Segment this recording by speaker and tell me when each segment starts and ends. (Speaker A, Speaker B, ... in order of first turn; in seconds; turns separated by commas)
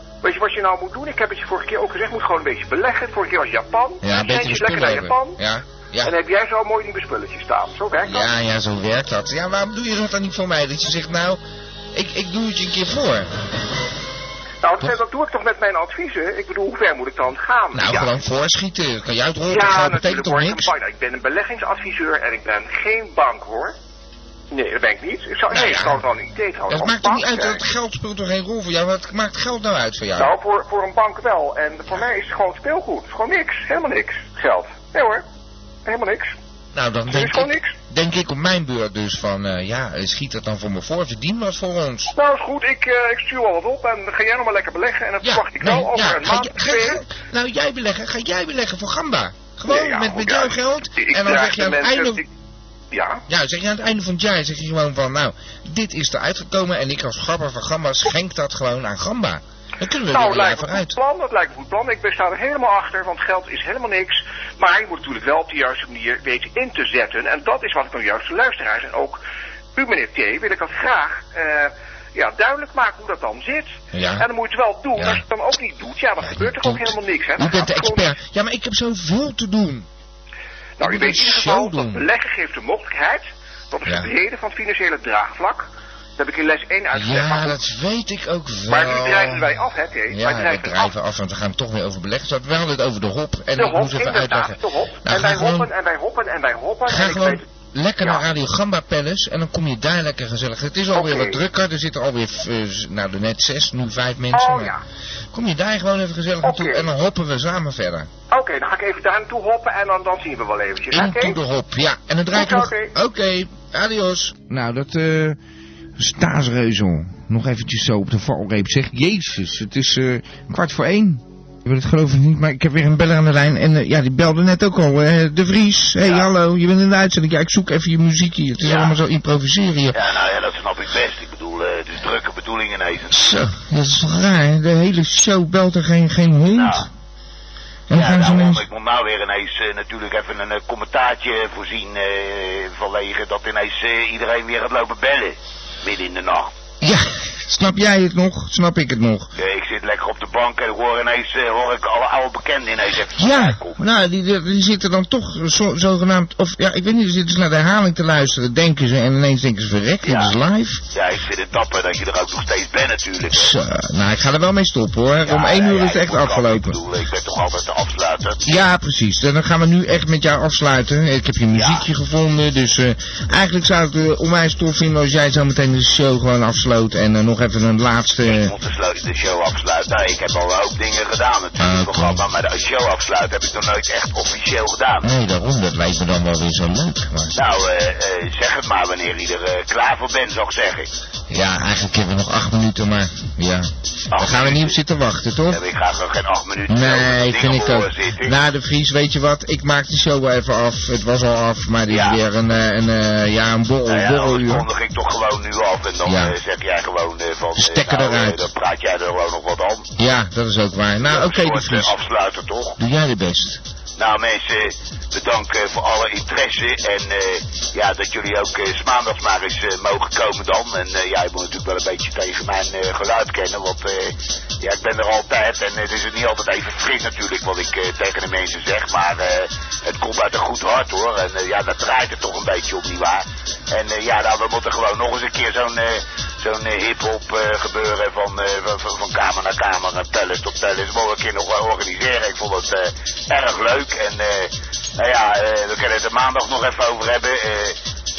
Speaker A: 0.2-5.4, Speaker B: 4.0-6.2, Speaker A: 6.0-8.3, Speaker B: 8.1-11.4, Speaker B: 11.9-13.3, Speaker A: 14.6-18.1, Speaker B: 17.7-20.7, Speaker A: 19.5-23.8, Speaker A: 24.5-27.6, Speaker B: 25.5-26.0, Speaker B: 26.7-30.3, Speaker A: 30.2-35.2, Speaker A: 35.9-36.3, Speaker B: 36.7-42.1, Speaker A: 37.1-37.8, Speaker A: 42.1-47.0, Speaker B: 45.2-52.2, Speaker A: 49.6-52.3, Speaker A: 52.9-53.2, Speaker B: 53.3-61.0, Speaker A: 60.1-69.2, Speaker A: 69.8-78.1, Speaker B: 73.9-74.3, Speaker B: 75.0-75.2, Speaker B: 76.2-79.9, Speaker A: 80.8-85.7, Speaker B: 80.8-82.0, Speaker B: 83.9-84.1, Speaker A: 86.2-87.6, Speaker B: 86.9-89.6, Speaker A: 88.7-90.9, Speaker B: 90.1-95.7, Speaker A: 93.6-97.4, Speaker B: 96.9-104.7, Speaker A: 101.0-101.4, Speaker A: 104.3-104.8, Speaker B: 105.3-108.1, Speaker A: 106.4-106.9, Speaker A: 108.3-111.4, Speaker B: 110.9-115.4, Speaker A: 112.3-112.9, Speaker B: 116.0-130.0, Speaker C: 126.0-126.3, Speaker C: 128.7-129.0, Speaker C: 129.9-133.3, Speaker B: 133.1-136.9, Speaker C: 136.6-136.9, Speaker B: 137.9-138.6, Speaker C: 137.9-146.5, Speaker B: 146.8-149.3, Speaker C: 149.4-153.8, Speaker B: 153.2-160.8, Speaker C: 160.0-160.4, Speaker C: 160.9-163.6, Speaker B: 163.3-166.8, Speaker C: 165.2-168.6, Speaker B: 168.4-178.5, Speaker C: 171.6-171.8, Speaker C: 178.3-185.1, Speaker B: 181.6-182.2, Speaker B: 185.0-187.3, Speaker C: 187.3-190.9, Speaker B: 191.3-195.6, Speaker C: 194.1-194.8, Speaker C: 195.5-198.4, Speaker B: 196.7-204.7, Speaker C: 201.9-202.2, Speaker C: 203.9-209.9, Speaker B: 206.1-206.3, Speaker B: 207.6-208.4, Speaker B: 210.0-212.0, Speaker C: 211.0-212.8, Speaker B: 212.8-213.6, Speaker C: 214.0-247.8